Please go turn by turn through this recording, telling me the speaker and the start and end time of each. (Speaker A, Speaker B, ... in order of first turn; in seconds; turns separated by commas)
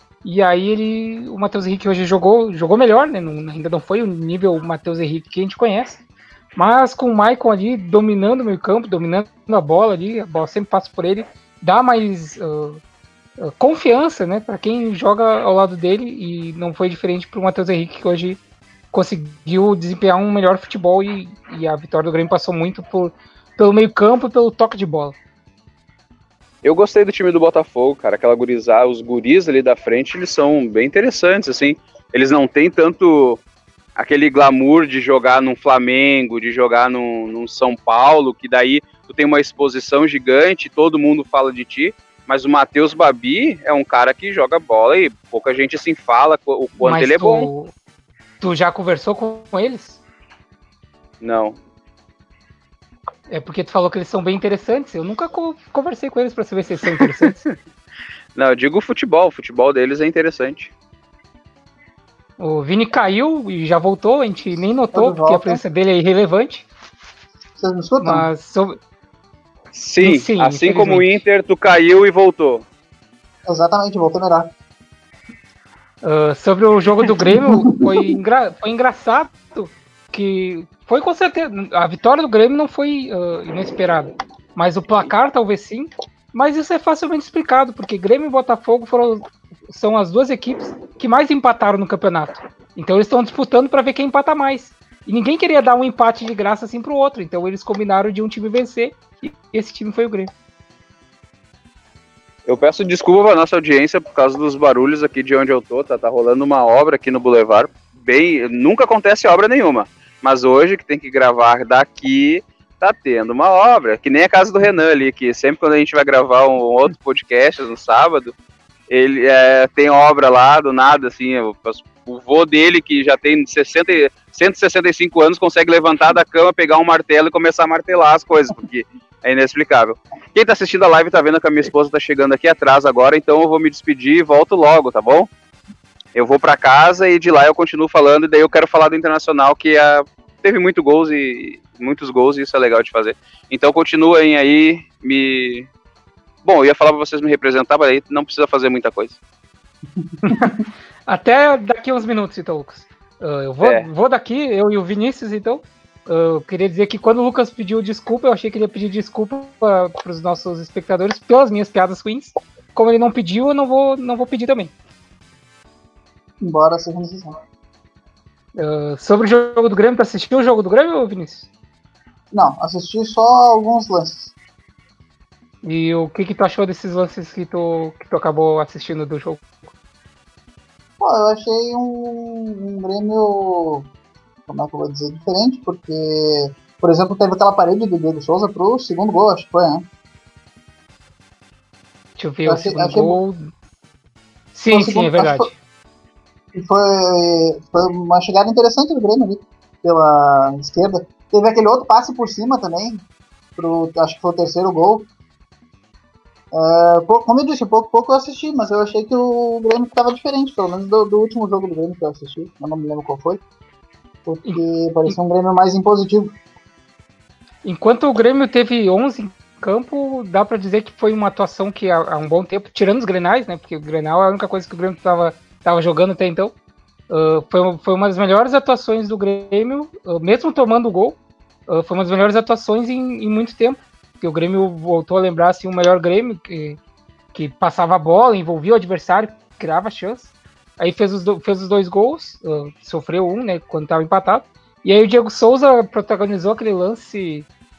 Speaker A: 0.2-6.0, Speaker A: 6.6-12.8, Speaker A: 13.4-18.4, Speaker A: 18.9-25.1, Speaker B: 26.6-33.4, Speaker B: 34.0-47.5, Speaker A: 46.8-47.7, Speaker A: 48.4-50.0, Speaker B: 51.2-51.6, Speaker A: 53.3-57.4, Speaker B: 57.0-57.5, Speaker B: 58.4-60.7, Speaker A: 62.4-66.7, Speaker C: 64.9-65.6, Speaker C: 67.6-68.3, Speaker A: 68.0-68.8, Speaker B: 69.7-72.7, Speaker A: 70.0-71.2, Speaker C: 73.5-74.5, Speaker A: 76.0-100.3, Speaker C: 77.0-78.1, Speaker B: 102.5-118.3, Speaker B: 118.9-135.3, Speaker B: 136.2-145.7, Speaker B: 146.4-149.2, Speaker A: 150.2-150.6, Speaker C: 150.3-150.6, Speaker A: 151.1-164.7, Speaker B: 153.6-153.9, Speaker C: 166.4-167.4, Speaker A: 168.6-171.5, Speaker C: 172.3-174.3, Speaker A: 175.6-179.6, Speaker C: 181.0-183.9, Speaker C: 184.5-189.8, Speaker A: 192.2-193.4, Speaker C: 192.5-193.2, Speaker A: 194.5-195.5, Speaker C: 194.7-195.5, Speaker C: 196.5-203.0, Speaker C: 203.6-205.1, Speaker C: 206.5-213.4, Speaker C: 214.2-216.3, Speaker A: 214.5-215.2, Speaker A: 217.6-226.5, Speaker A: 227.1-236.8, Speaker A: 237.3-247.5